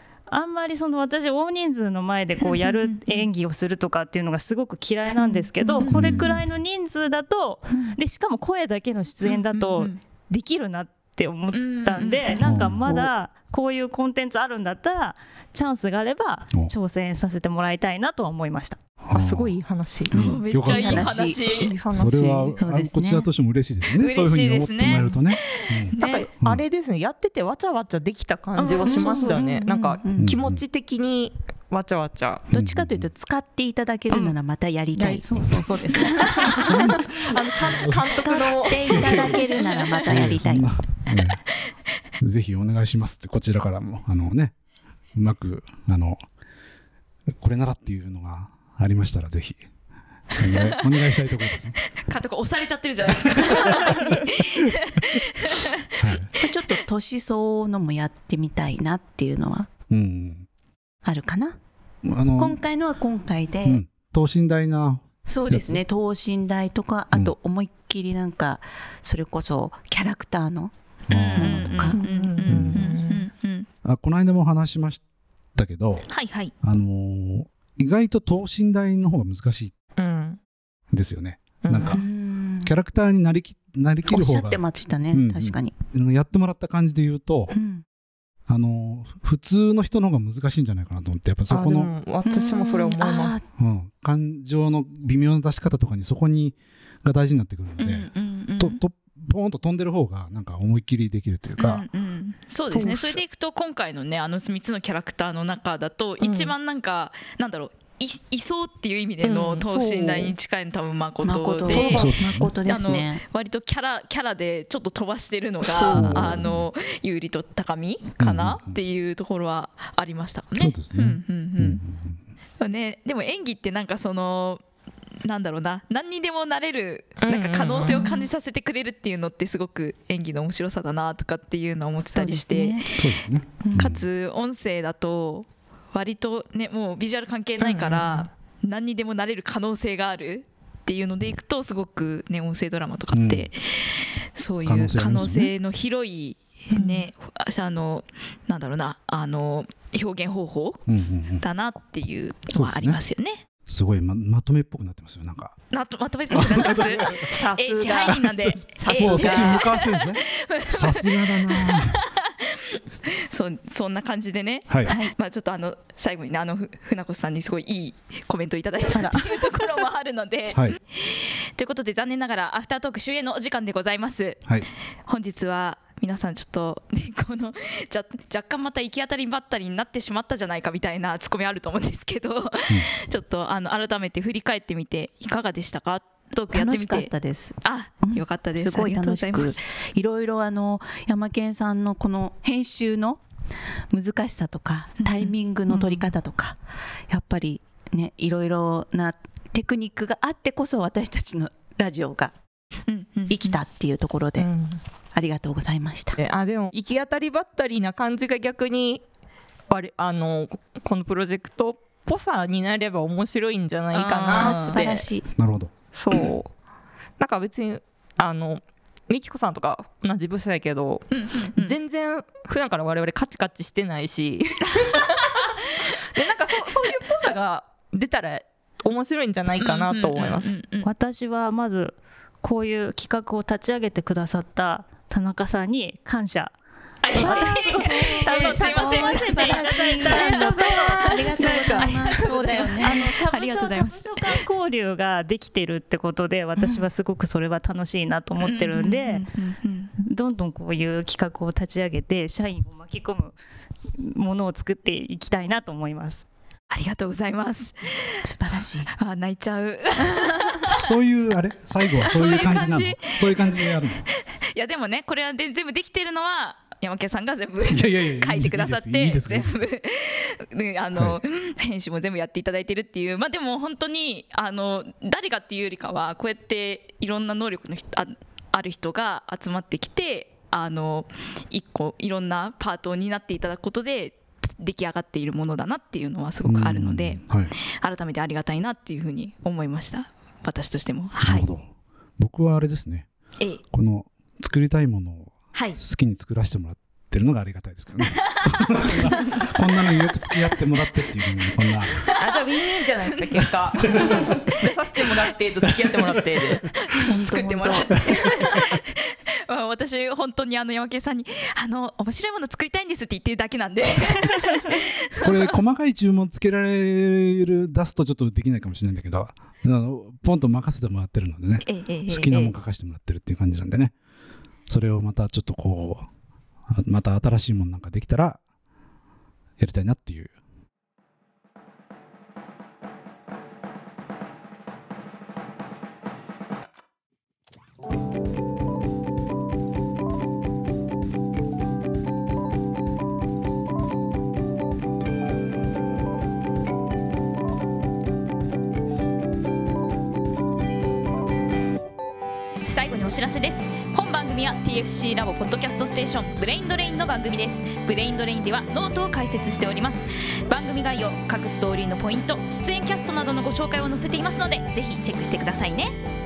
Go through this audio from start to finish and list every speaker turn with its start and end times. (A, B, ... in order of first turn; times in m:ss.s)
0:00.3-0:18.8 A
0:02.5-0:03.3 B
0:05.1-0:05.8 C
0:05.8-0:06.4 D
0:07.7-0:08.0 C
0:09.3-0:10.0 B
0:11.5-0:12.3 B
0:12.4-0:13.0 D
0:19.0-0:19.6 D
0:19.1-0:20.3 E
0:20.1-0:21.1 D
0:20.1-0:21.7 B
0:20.1-0:21.8 C
0:21.7-0:22.6 E
0:21.9-0:26.6 D
0:22.6-0:23.3 C
0:24.0-0:26.3 B
0:26.0-0:32.5 E
0:28.6-0:29.5 A
0:28.8-0:30.3 C
0:30.2-0:30.6 D
0:32.5-0:33.1 D
0:32.5-0:36.7 C
0:34.1-0:34.4 A
0:35.0-0:37.1 A
0:36.2-0:39.8 E
0:36.6-0:37.0 D
0:37.6-0:38.1 D
0:38.0-0:40.7 C
0:38.8-0:39.4 D
0:40.1-0:41.4 D
0:42.2-0:44.5 D
0:45.1-0:46.2 D
0:47.3-0:49.6 D
0:50.4-0:51.8 D
0:50.4-0:50.8 B
0:52.0-0:56.2 B
0:53.1-0:55.2 D
0:56.0-0:56.3 D
0:56.4-0:59.7 C
0:59.9-1:00.5 D
1:01.0-1:01.6 C
1:02.0-1:02.6 D
1:02.4-1:03.8 C
1:03.7-1:05.8 D
1:05.3-1:10.8 C
1:11.1-1:13.7 B
1:11.1-1:12.9 D
1:11.4-1:12.0 C
1:11.9-1:13.3 E
1:13.8-1:15.0 D
1:15.6-1:16.1 D
1:16.1-1:16.5 B
1:16.6-1:19.7 D
1:20.0-1:20.4 E
1:20.9-1:22.0 D
1:21.6-1:22.0 E
1:21.9-1:22.7 C
1:22.6-1:27.5 D
1:24.1-1:25.8 C
1:27.5-1:27.8 C
1:28.5-1:31.9 D
1:31.5-1:33.4 E
1:32.2-1:33.4 C
1:33.6-1:41.8 D
1:37.8-1:38.8 B
1:41.6-1:52.1 B
1:42.7-1:43.2 E
1:46.2-1:46.5 E
1:49.2-1:50.3 E
1:51.2-1:53.2 C
1:51.7-1:52.5 D
1:52.7-2:01.8 B
1:55.7-1:56.2 C
1:55.9-1:56.7 D
1:58.2-1:58.8 D
2:00.6-2:02.2 D
2:02.6-2:04.6 B
2:05.2-2:13.0 B
2:07.2-2:08.2 E
2:12.0-2:12.9 C
2:13.0-2:14.0 D
2:13.6-2:14.0 C
2:13.7-2:30.9 B
2:17.6-2:18.3 E
2:23.1-2:23.5 D
2:24.6-2:25.5 D
2:30.9-2:31.4 D
2:31.4-2:33.4 B
2:32.5-2:33.0 D
2:33.7-2:35.6 D
2:35.7-2:54.5 B
2:36.3-2:37.3 D
2:37.3-2:39.6 E
2:38.1-2:42.0 D
2:44.9-2:45.1 C
2:48.9-2:49.2 A
2:55.1-3:07.1 B
3:06.5-3:13.2 C
3:07.6-3:09.6 B
3:13.9-3:16.6 C
3:15.0-3:15.9 B
3:17.1-3:22.3 C
3:22.9-3:23.6 B
3:23.3-3:24.5 C
3:24.4-3:24.8 E
3:25.1-3:26.2 C
3:26.2-3:29.0 E
3:29.7-3:35.1 E
3:33.9-3:34.8 B
3:34.4-3:35.3 C
3:35.4-3:36.2 D
3:35.9-3:36.5 E
3:37.2-3:45.4 E
3:41.1-3:41.8 B
3:46.1-3:50.6 E
3:49.6-3:50.9 B
3:50.8-3:56.6 A
3:57.0-4:04.4 B
3:57.1-4:09.3 A
3:57.1-4:03.1 C
4:06.6-4:06.8 C
4:08.4-4:09.9 B
4:10.0-4:13.4 A
4:14.0-4:16.2 A
4:16.7-4:18.2 B
4:18.2-4:18.9 C
4:18.9-4:20.9 B
4:20.7-4:24.0 D
4:22.0-4:23.5 B
4:24.5-4:51.5 B
4:27.7-4:29.7 D
4:46.4-4:47.5 D
4:51.2-4:53.1 D
4:53.7-5:01.9 D
4:55.5-4:55.8 B
4:58.3-4:59.5 B
5:02.0-5:02.4 B
5:02.2-5:06.7 E
5:03.9-5:04.4 D
5:06.8-5:15.6 B
5:07.0-5:08.0 C
5:15.2-5:24.0 D
5:21.6-5:22.5 B
5:24.7-5:26.1 D
5:26.7-5:28.4 D
5:29.6-5:30.3 D
5:52.7-6:06.0 B